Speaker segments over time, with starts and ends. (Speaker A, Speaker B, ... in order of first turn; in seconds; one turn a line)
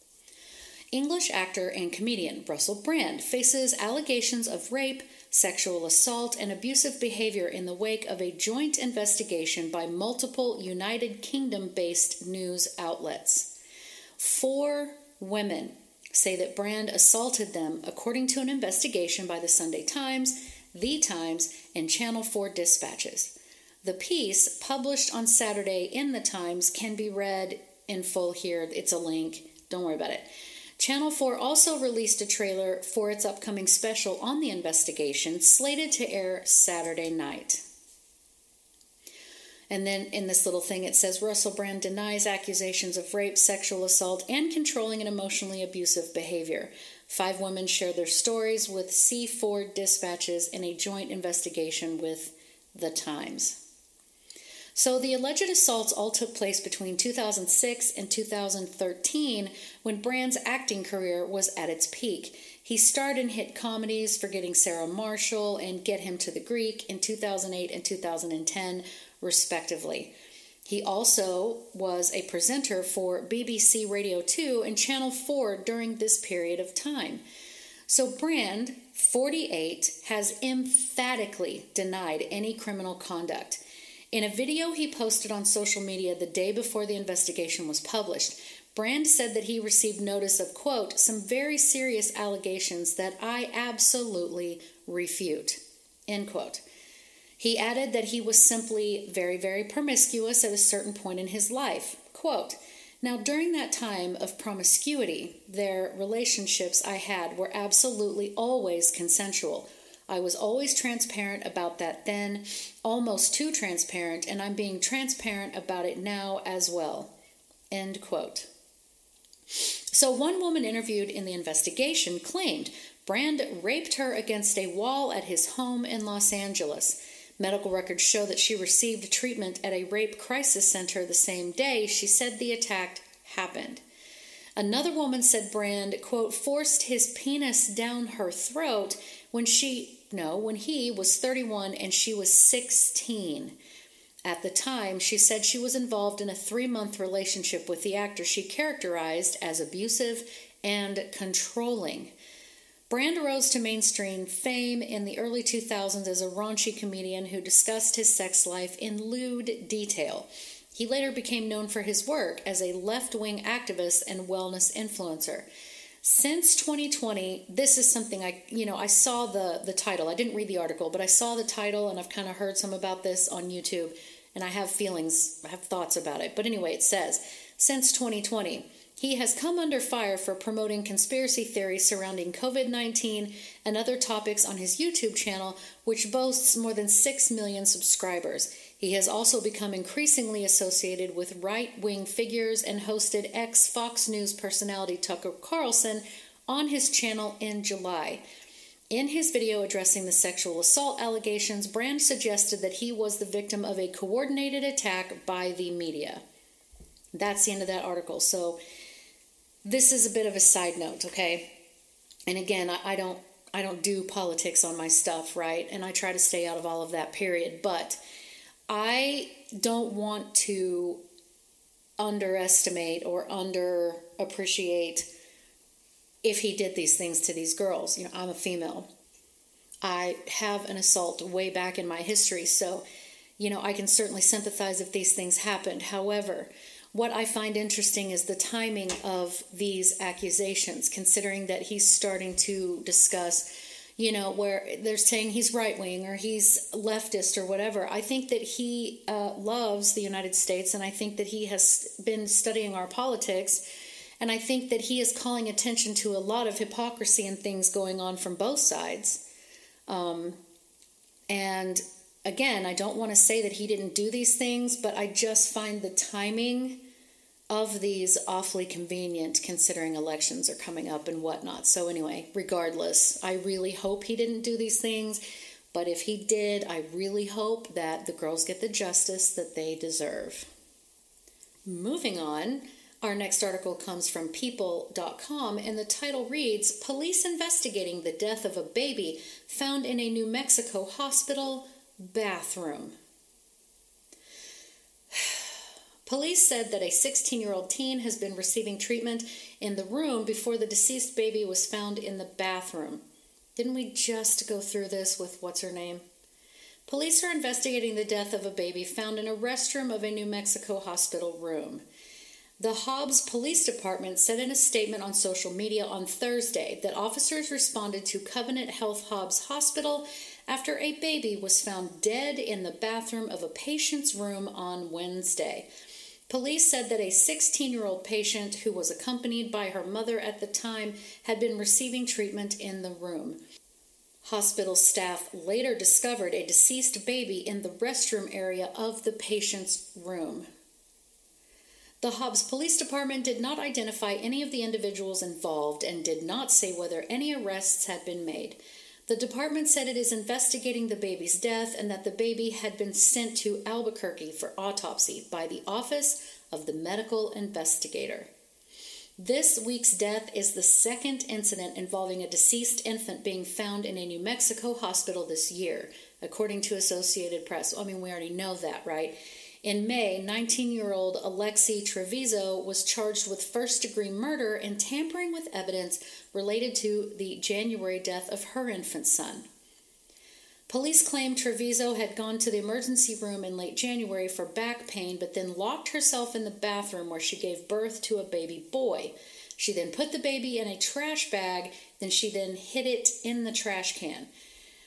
Speaker A: 0.9-13.5
Speaker A: 14.2-37.6
Speaker A: 39.7-53.6
Speaker A: 54.7-70.1
Speaker A: 70.7-77.2
Speaker A: 77.9-83.6
Speaker A: 84.1-96.6
Speaker A: 97.4-117.1
Speaker A: 117.7-118.5
Speaker A: 119.9-133.8
Speaker A: 134.6-143.5
Speaker A: 144.2-152.1
Speaker A: 152.9-165.5
Speaker A: 166.0-198.2
Speaker A: 198.9-206.2
Speaker A: 207.1-208.6
Speaker A: 209.6-211.5
Speaker A: 212.3-218.0
Speaker A: 218.7-221.0
Speaker A: 222.0-225.1
Speaker A: 226.2-228.9
Speaker A: 229.8-232.8
Speaker A: 233.4-253.6
Speaker A: 254.2-259.2
Speaker A: 259.9-260.4
Speaker A: 261.3-266.8
Speaker A: 267.5-275.2
Speaker A: 275.7-280.5
Speaker A: 281.6-292.9
Speaker A: 295.1-295.4
Speaker A: 296.1-303.0
Speaker A: 303.6-306.0
Speaker A: 306.9-311.8
Speaker A: 312.6-325.7
Speaker A: 326.3-333.4
Speaker A: 334.2-340.5
Speaker A: 342.0-358.3
Speaker A: 359.2-379.4
Speaker A: 380.7-394.3